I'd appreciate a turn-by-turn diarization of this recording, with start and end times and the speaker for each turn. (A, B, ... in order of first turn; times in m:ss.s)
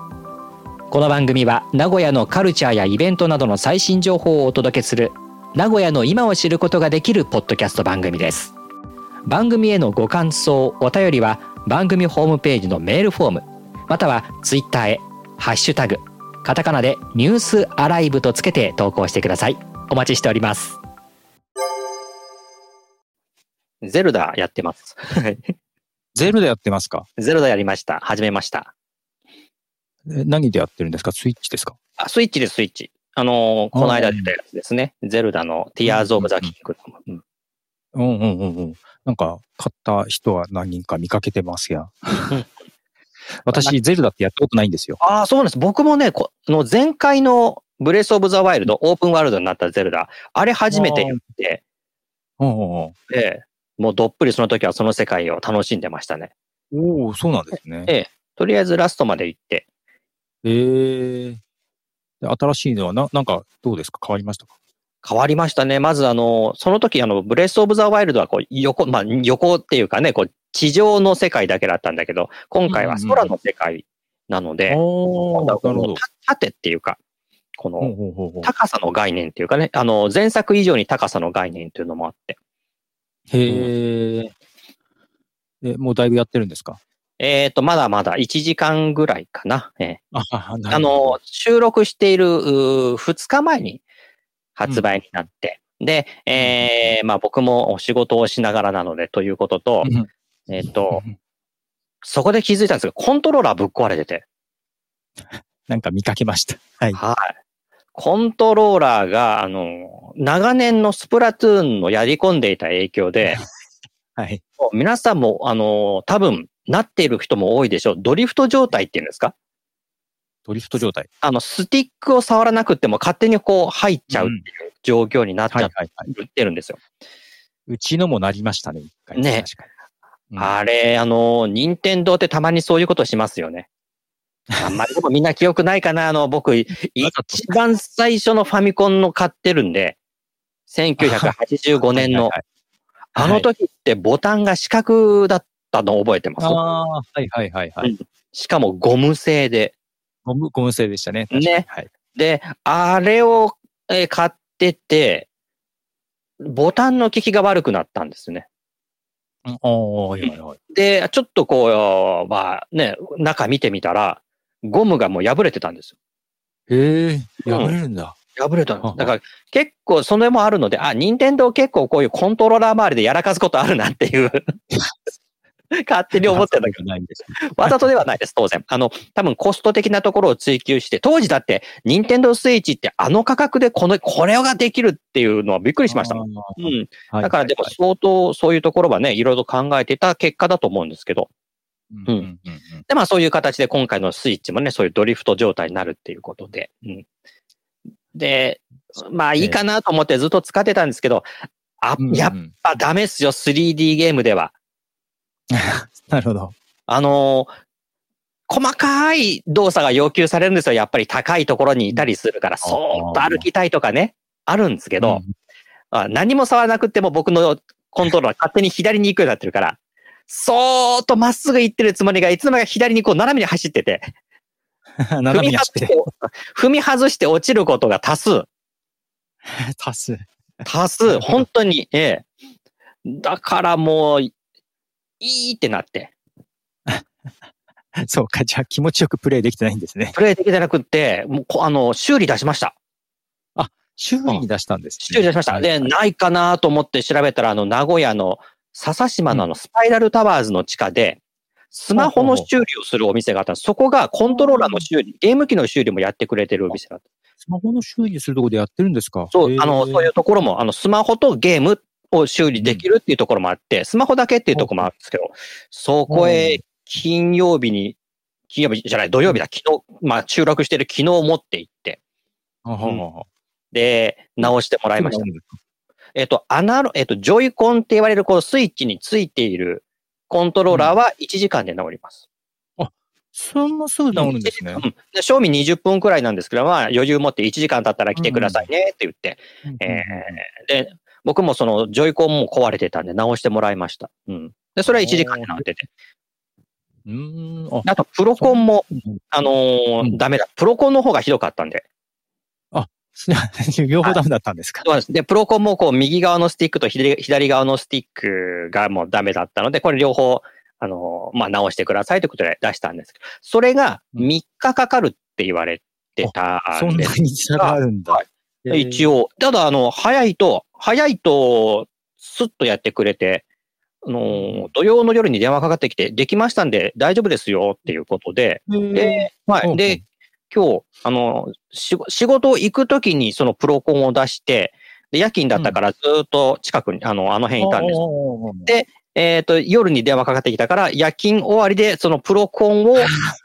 0:00.9-0:08.5 A
0:09.3-0:20.8 A
0:23.8-0:25.5 A
0:26.2-0:27.1 B
0:27.2-0:28.7 A
0:30.1-0:31.8 B
0:32.0-0:37.2 A
0:33.7-0:34.3 B
0:35.9-0:36.5 B
0:37.9-0:42.4 B
0:43.4-0:45.0 B
0:43.5-0:43.8 A
0:45.0-0:51.6 A
0:50.7-0:51.2 B
0:52.4-0:53.0 B
0:53.1-0:56.3 A
0:56.7-0:57.9 B
0:57.9-0:59.6 A
1:00.4-1:01.4 B
1:02.2-1:04.5 B
1:05.0-1:14.8 A
1:12.7-1:13.4 B
1:14.7-1:16.0 B
1:15.3-1:17.0 A
1:17.6-1:22.4 A
1:17.8-1:18.5 B
1:23.3-1:24.3 B
1:23.5-1:23.7 A
1:25.6-1:26.8 B
1:27.2-1:30.0 A
1:30.1-1:31.1 B
1:30.7-1:33.8 A
1:34.6-1:39.9 A
1:36.4-1:36.9 B
1:39.8-1:40.1 B
1:40.5-1:41.0 A
1:40.6-1:41.1 B
1:42.0-1:44.2 A
1:45.3-1:47.0 B
1:47.0-1:47.4 A
1:48.0-1:53.4 A
1:54.6-1:59.4 A
2:00.5-2:01.1 B
2:01.2-2:06.8 A
2:04.1-2:04.4 B
2:05.5-2:06.1 B
2:07.7-2:09.7 B
2:09.2-2:09.5 A
2:10.4-2:13.7 A
2:14.6-2:20.0 A
2:17.0-2:17.5 B
2:20.7-2:22.3 A
2:21.0-2:21.3 B
2:21.9-2:22.4 B
2:23.2-2:26.6 A
2:23.2-2:23.5 B
2:26.4-2:27.9 B
2:27.8-2:29.7 A
2:30.3-2:31.9 B
2:31.3-2:35.3 A
2:36.4-2:38.5 A
2:39.5-2:40.6 B
2:40.2-2:45.9 A
2:46.7-2:48.2 B
2:47.5-2:47.8 A
2:48.4-2:54.5 A
2:48.8-2:49.1 B
2:55.7-2:56.8 A
2:56.2-2:57.8 B
2:57.4-3:11.3 A
3:05.9-3:07.7 B
3:11.9-3:12.8 B
3:12.9-3:17.0 A
3:18.1-3:21.3 A
3:21.8-3:24.5 A
3:22.0-3:22.5 B
3:25.5-3:26.5 B
3:26.9-3:27.5 A
3:28.5-3:35.2 A
3:32.6-3:33.4 B
3:35.0-3:35.3 B
3:35.9-3:44.1 A
3:45.0-3:45.9 B
3:45.3-3:48.5 A
3:49.5-3:50.3 B
3:50.6-3:52.3 A
3:51.1-3:51.4 B
3:53.0-3:54.3 A
3:55.2-3:56.1 A
3:58.0-4:00.2 B
4:00.1-4:02.8 A
4:03.6-4:05.9 B
4:05.0-4:17.0 A
4:12.0-4:12.5 B
4:14.2-4:14.9 B
4:17.4-4:20.1 B
4:19.3-4:28.0 A
4:22.5-4:22.8 B
4:24.6-4:24.9 B
4:26.1-4:26.6 B
4:28.5-4:32.0 A
4:32.6-4:33.3 B
4:33.7-4:35.3 A
4:34.4-4:35.6 B
4:36.2-4:42.2 A
4:40.7-4:41.0 B
4:42.8-4:44.8 B
4:44.1-4:55.9 A
4:48.2-4:48.7 B
4:49.6-4:50.4 B
4:54.9-4:55.7 B
4:57.1-4:57.9 B
4:57.9-5:01.8 A
4:58.4-4:59.2 B
5:02.7-5:04.9 B
5:04.8-5:23.4 A
5:16.2-5:19.1 B
5:24.0-5:38.0 A
5:24.3-5:24.7 B
5:28.7-5:30.0 B
5:37.6-5:38.7 B
5:38.7-5:43.1 A
5:43.0-5:43.3 B